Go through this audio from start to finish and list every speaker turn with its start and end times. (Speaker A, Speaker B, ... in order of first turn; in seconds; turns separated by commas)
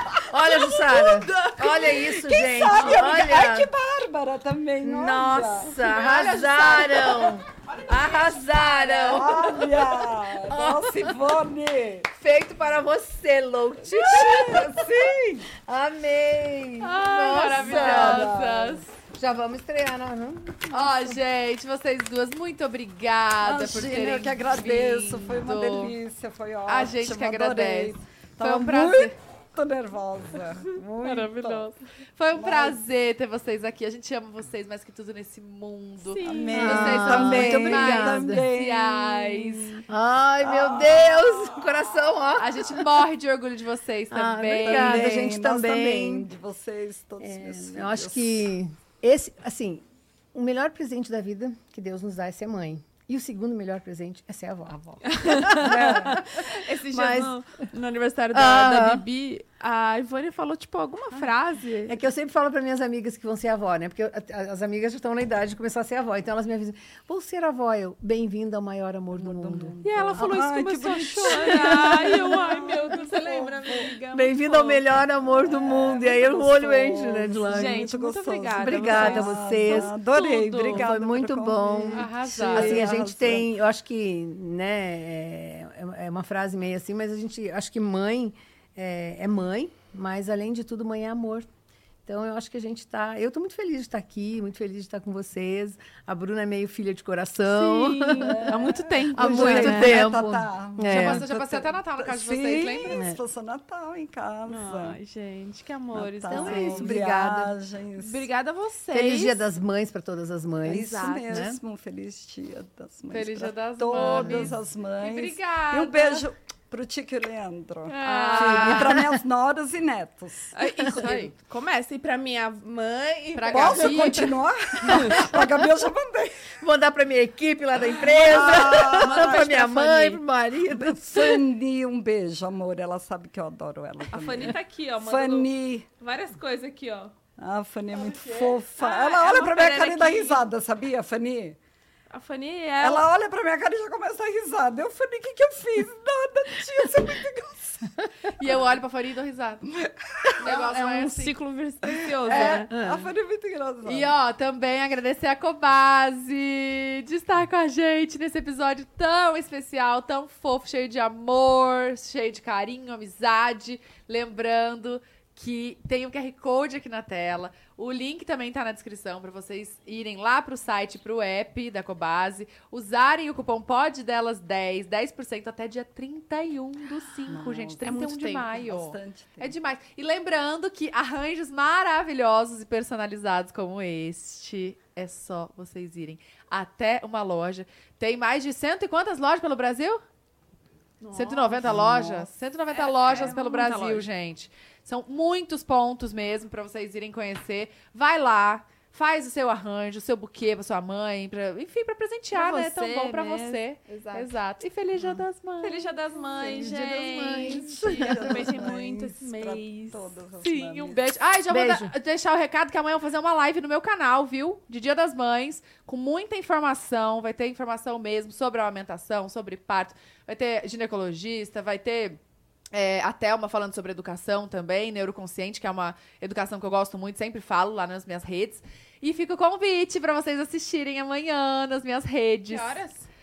Speaker A: 0.2-3.7, Speaker B: 0.8-1.9, Speaker C: 1.6-5.8, Speaker B: 2.7-3.2, Speaker A: 4.8-9.9, Speaker B: 5.8-9.3, Speaker C: 9.1-12.1, Speaker A: 10.5-11.1, Speaker A: 12.1-15.0, Speaker B: 13.9-14.6, Speaker C: 14.1-15.5, Speaker A: 15.5-18.5, Speaker B: 16.8-18.9, Speaker C: 17.5-18.8, Speaker A: 19.1-21.2, Speaker B: 20.7-25.9, Speaker C: 23.4-31.7, Speaker B: 26.7-29.1, Speaker B: 31.0-39.8, Speaker C: 32.3-32.8, Speaker D: 36.0-37.1, Speaker C: 36.2-39.7, Speaker A: 36.5-38.5, Speaker A: 39.9-42.9, Speaker C: 40.4-41.8, Speaker B: 42.4-45.2, Speaker A: 44.1-46.3, Speaker C: 44.6-48.5, Speaker A: 47.2-57.4, Speaker D: 55.1-62.0, Speaker C: 55.5-56.2, Speaker A: 58.3-59.0, Speaker A: 61.9-70.4, Speaker C: 69.1-73.9, Speaker D: 69.8-74.8, Speaker A: 71.2-73.3, Speaker A: 74.1-77.9, Speaker C: 75.4-83.5, Speaker D: 77.4-80.9, Speaker A: 78.6-79.9, Speaker A: 80.7-91.5, Speaker B: 81.9-82.9, Speaker A: 92.0-98.6, Speaker B: 97.5-100.1, Speaker C: 98.2-105.0, Speaker A: 99.1-101.3, Speaker B: 100.8-103.0, Speaker A: 102.9-103.2, Speaker D: 104.5-106.9, Speaker C: 105.9-108.3, Speaker A: 106.3-107.5, Speaker D: 108.0-109.4, Speaker A: 108.9-111.6, Speaker C: 110.6-121.3, Speaker D: 110.8-111.3, Speaker B: 113.1-116.2, Speaker A: 113.9-114.5, Speaker B: 117.9-119.0, Speaker D: 118.0-119.0, Speaker D: 120.5-125.3, Speaker B: 123.3-124.4, Speaker C: 123.5-126.6, Speaker A: 124.8-125.5, Speaker A: 126.6-131.4, Speaker D: 128.1-130.2, Speaker C: 128.2-129.8, Speaker C: 130.7-135.9, Speaker D: 134.1-137.1, Speaker C: 137.4-141.6, Speaker D: 138.1-140.5, Speaker D: 142.1-143.1, Speaker C: 142.8-148.0, Speaker B: 148.3-149.7, Speaker C: 149.7-150.6, Speaker B: 150.4-151.4, Speaker D: 150.4-152.8, Speaker C: 151.9-154.1, Speaker B: 152.3-152.6, Speaker A: 152.7-153.1, Speaker B: 153.8-190.0, Speaker C: 177.3-179.5, Speaker D: 177.8-178.5, Speaker D: 191.0-191.8, Speaker B: 191.1-205.9, Speaker C: 191.7-192.2, Speaker D: 192.7-194.1, Speaker D: 202.3-204.3, Speaker D: 205.6-210.0, Speaker C: 206.3-211.0, Speaker A: 206.4-208.7, Speaker B: 210.4-222.2, Speaker A: 211.5-211.9, Speaker B: 222.7-232.8, Speaker D: 232.5-233.1